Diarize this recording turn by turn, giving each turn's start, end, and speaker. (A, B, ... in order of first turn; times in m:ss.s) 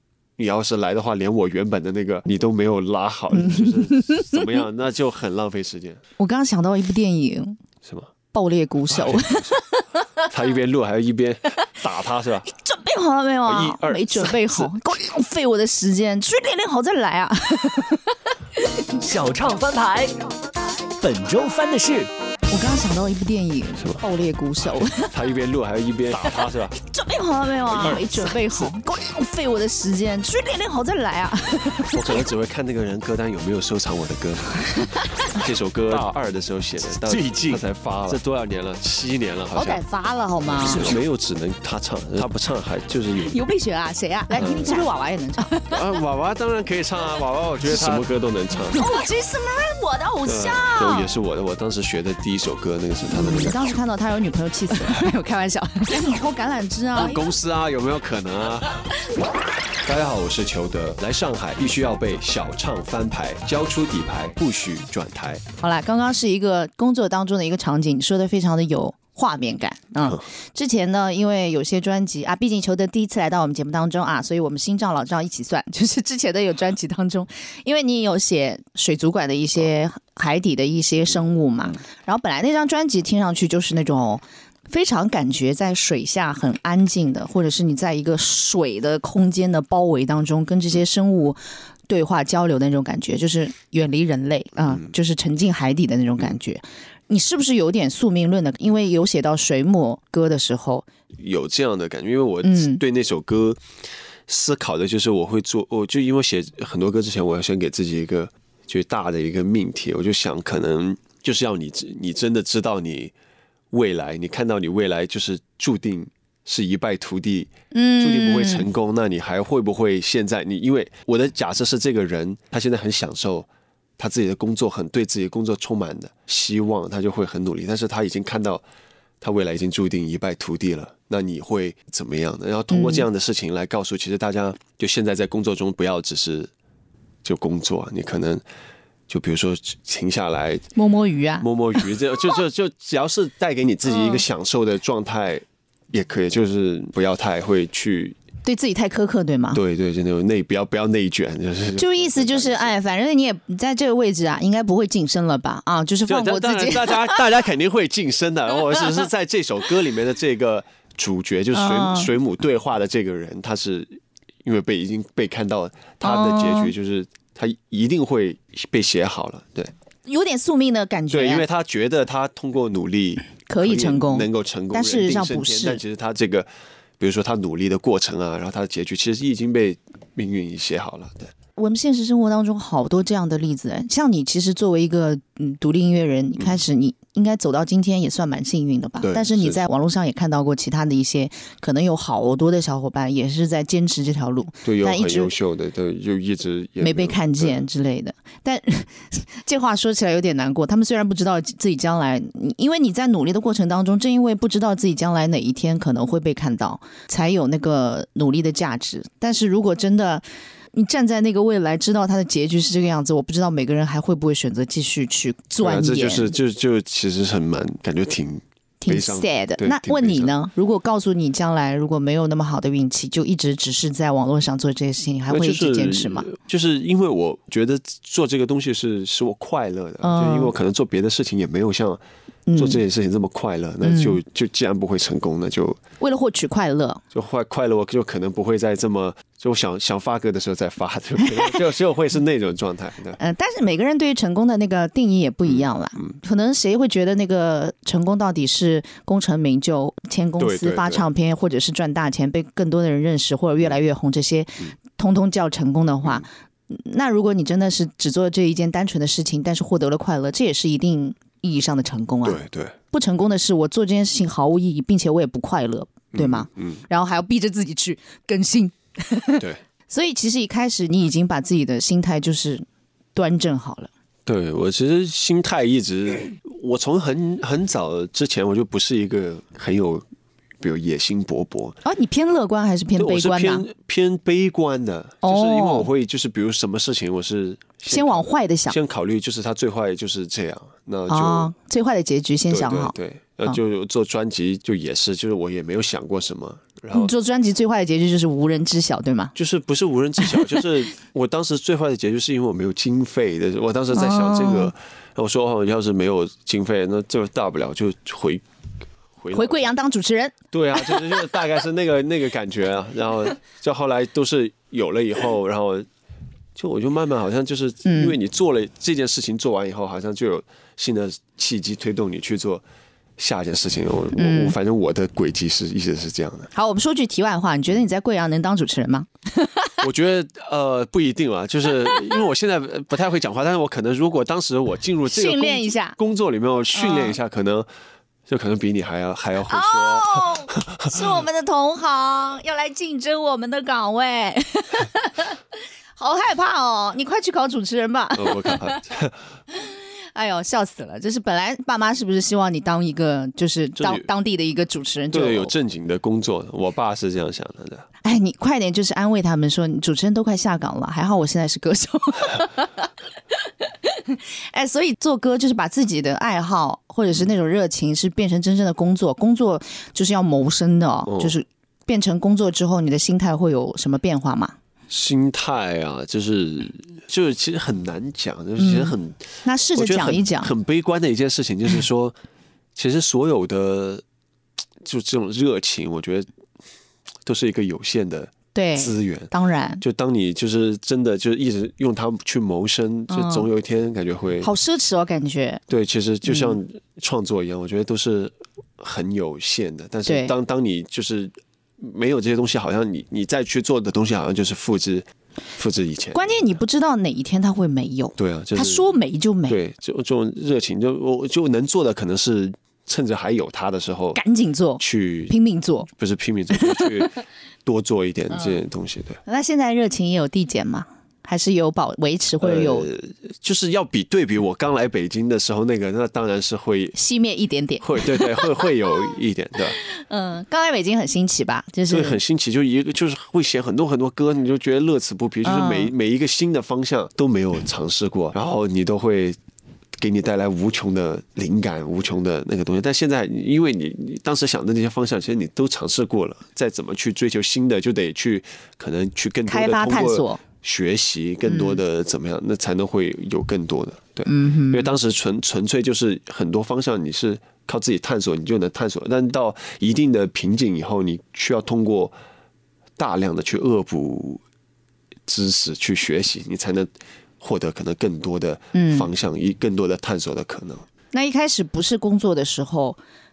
0:00.4-0:06.0 A
0:03.3-0:04.4 B
0:06.2-0:07.6 B
0:07.8-0:08.1 A
0:08.3-0:10.0 B
0:08.9-0:09.6 A
0:10.3-0:12.5 A
0:12.5-0:18.2 B
0:13.5-0:14.7 A
0:19.0-0:20.2 C
0:21.0-0:22.1 C
0:22.5-0:25.1 B
0:24.7-0:26.8 A
0:26.8-0:32.2 B
0:27.7-0:28.7 A
0:31.9-0:34.7 A
0:34.7-0:35.0 B
0:35.3-0:39.8 A
0:39.5-0:40.9 B
0:40.6-0:43.4 A
0:43.2-0:46.0 B
0:44.3-0:44.9 A
0:45.7-0:48.8 A
0:48.7-0:51.1 B
0:50.2-0:53.6 A
0:53.1-0:57.2 B
0:57.0-0:58.9 A
0:59.8-1:05.4 A
1:05.6-1:40.9 B
1:34.6-1:34.9 A
1:41.2-1:43.6 A
1:42.4-1:42.8 B
1:44.3-1:53.1 A
1:53.7-2:08.6 A
1:57.7-1:58.7 B
2:09.2-2:16.5 A
2:12.7-2:13.1 B
2:17.2-2:18.4 A
2:19.1-2:20.6 A
2:20.8-2:22.1 B
2:21.4-2:28.2 A
2:23.9-2:24.2 B
2:28.4-2:29.6 B
2:29.5-2:32.8 A
2:31.8-2:37.2 B
2:36.1-2:49.7 A
2:41.5-2:42.1 B
2:46.0-2:46.7 B
2:50.0-2:51.5 B
2:51.1-2:56.5 A
2:53.5-2:55.8 B
2:57.0-3:01.3 A
3:01.6-3:15.3 B
3:09.0-3:09.6 A
3:14.6-3:17.6 A
3:16.8-3:36.3 B
3:35.6-3:40.3 A
3:38.8-3:46.3 B
3:45.3-3:52.0 A
3:50.0-3:50.5 B
3:52.5-3:52.8 B
3:52.6-3:55.8 A
3:53.8-3:54.2 B
3:56.0-3:57.0 B
3:57.1-4:03.2 A
4:03.2-4:33.9 B
4:05.5-4:06.1 A
4:10.4-4:11.0 A
4:22.2-4:22.8 A
4:26.1-4:26.8 A
4:34.3-4:40.0 A
4:40.6-4:41.8 A
4:41.8-4:43.7 B
4:43.0-4:51.5 A
4:45.2-4:45.9 B
4:47.9-4:48.8 B
4:51.1-4:52.9 B
4:52.5-4:57.1 A
4:56.9-4:59.3 B
4:59.4-5:08.4 A
5:03.9-5:04.7 B
5:09.2-5:09.7 A
5:09.3-5:11.0 B
5:10.5-5:15.9 A
5:16.6-5:22.6 A
5:17.8-5:18.2 B
5:23.2-5:26.5 A
5:24.2-5:24.6 B
5:26.5-5:29.8 B
5:29.8-5:37.7 A
5:35.1-5:36.0 B
5:36.7-5:37.2 B
5:38.3-5:41.2 A
5:39.5-5:45.4 B
5:46.0-5:48.8 B
5:48.2-5:49.2 A
5:49.5-5:55.5 B
5:53.8-5:54.1 A
5:55.1-5:57.9 A
5:58.0-6:02.9 B
6:03.6-6:14.6 B
6:11.1-6:11.3 A
6:14.9-6:22.2 A
6:18.6-6:20.5 B
6:22.8-6:24.0 A
6:24.8-6:26.3 A
6:27.2-6:34.5 A
6:28.5-6:29.8 B
6:33.1-6:33.5 B
6:34.4-6:35.6 B
6:35.7-6:46.4 A
6:36.2-6:36.6 B
6:40.1-6:40.3 B
6:46.1-6:49.6 B
6:48.2-6:48.9 A
6:49.5-6:54.2 A
6:54.2-6:55.9 B
6:54.8-6:55.3 A
6:55.9-6:59.2 A
6:56.5-6:57.1 B
6:59.3-7:02.9 B
7:02.4-7:07.0 A
7:06.9-7:09.1 B
7:07.8-7:09.8 A
7:09.7-7:12.2 B
7:11.9-7:19.4 A
7:15.4-7:15.9 B
7:20.0-7:42.1 A
7:29.5-7:30.4 B
7:31.5-7:31.8 B
7:34.3-7:34.9 B
7:43.0-7:44.4 A
7:45.3-7:50.8 A
7:48.7-7:49.1 B
7:51.1-7:53.0 B